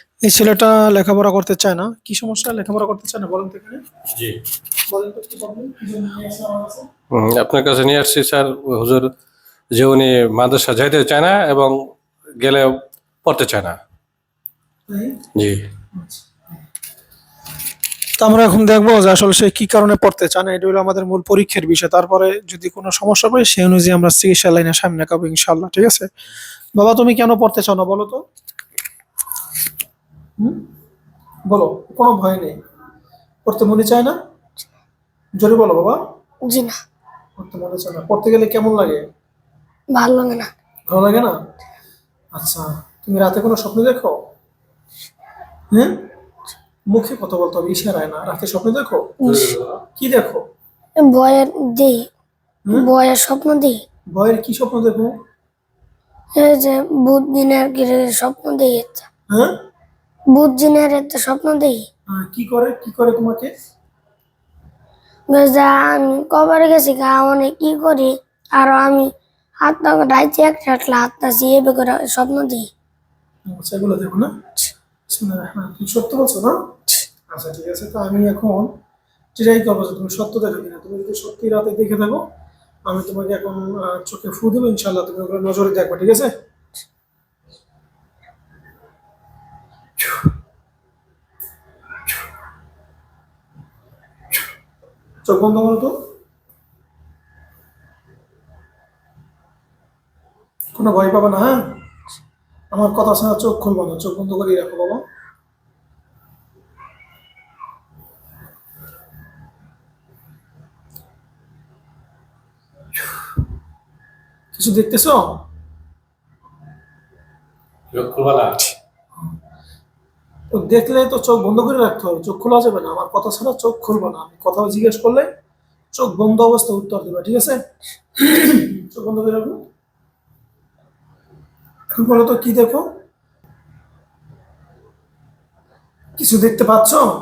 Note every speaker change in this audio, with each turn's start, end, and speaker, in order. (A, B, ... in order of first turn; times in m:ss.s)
0:00.2-0:03.8 A
0:04.9-0:06.9 A
0:07.1-0:09.0 B
0:09.8-0:11.7 B
0:12.4-0:12.7 B
0:13.2-0:13.8 B
0:14.9-0:15.2 A
0:18.2-0:26.0 A
0:26.8-0:28.2 A
0:31.5-0:32.6 A
0:33.4-0:34.2 A
0:35.4-0:36.0 A
0:36.5-0:36.8 C
0:37.4-0:39.0 A
0:39.9-0:40.5 C
0:40.9-0:41.3 A
0:42.3-0:44.1 A
0:45.7-0:46.0 A
0:46.9-0:49.2 A
0:49.2-0:49.5 C
0:49.3-0:49.8 B
0:50.0-0:50.4 A
0:51.0-0:52.1 C
0:52.7-0:53.8 C
0:54.1-0:55.1 A
0:56.4-0:59.1 C
0:59.3-0:59.6 A
1:00.3-1:01.9 C
1:02.1-1:03.5 A
1:05.3-1:09.1 C
1:09.6-1:12.7 C
1:13.5-1:14.3 A
1:15.1-1:16.6 A
1:17.3-1:18.7 A
1:19.3-1:22.2 A
1:22.9-1:26.3 A
1:35.2-1:35.9 A
1:40.8-1:41.6 A
1:42.7-1:45.0 A
1:54.5-1:55.2 A
1:57.9-1:58.7 B
2:00.5-2:05.3 A
2:05.9-2:07.6 A
2:08.2-2:09.6 A
2:11.9-2:12.8 A
2:16.2-2:17.1 A